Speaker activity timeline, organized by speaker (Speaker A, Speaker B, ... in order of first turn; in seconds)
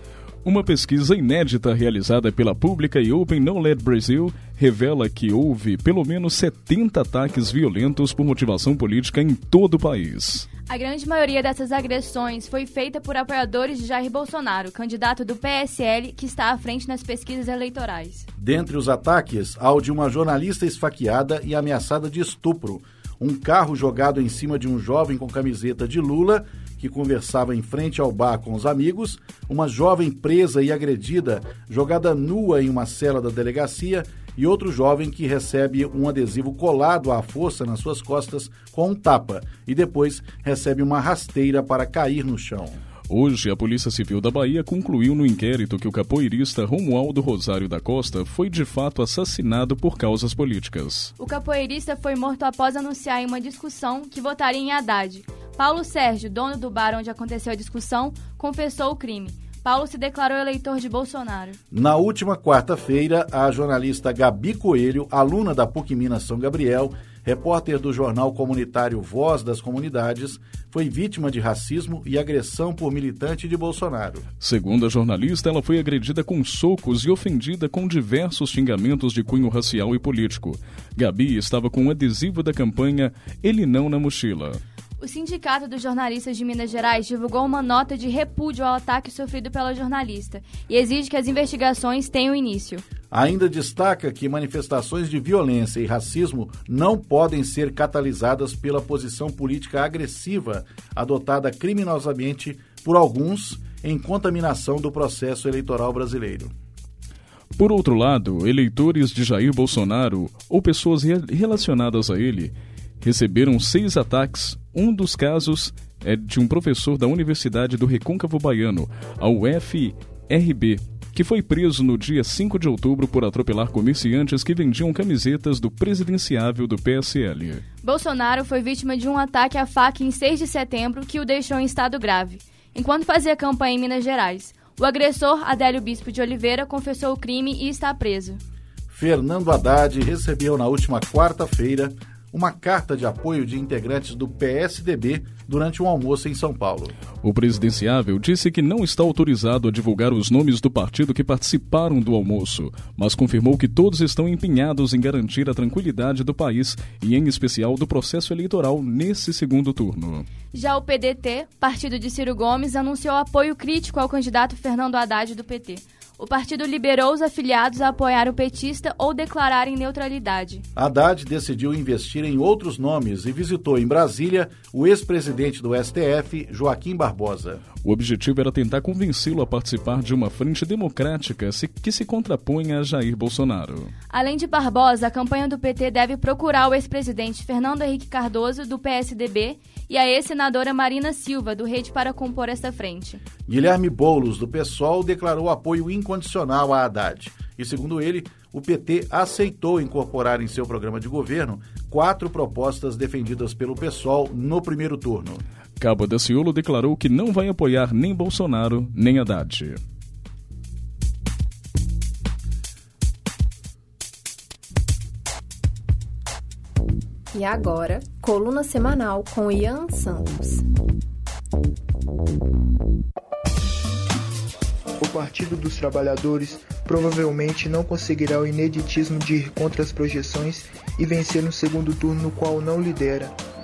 Speaker A: 0.4-10.5, 43.1-51.1, 74.4-84.6, 107.6-127.6, 147.2-160.3, 177.8-183.9, 205.8-209.8
Speaker B: 10.7-18.3, 51.2-61.6, 85.0-92.8, 127.8-138.4, 160.5-170.6, 184.1-193.2
Speaker C: 18.4-42.8, 61.7-74.2, 93.1-106.5, 138.9-146.9, 170.8-177.6, 193.5-205.4
Speaker D: 217.3-220.7
Speaker E: 225.0-233.3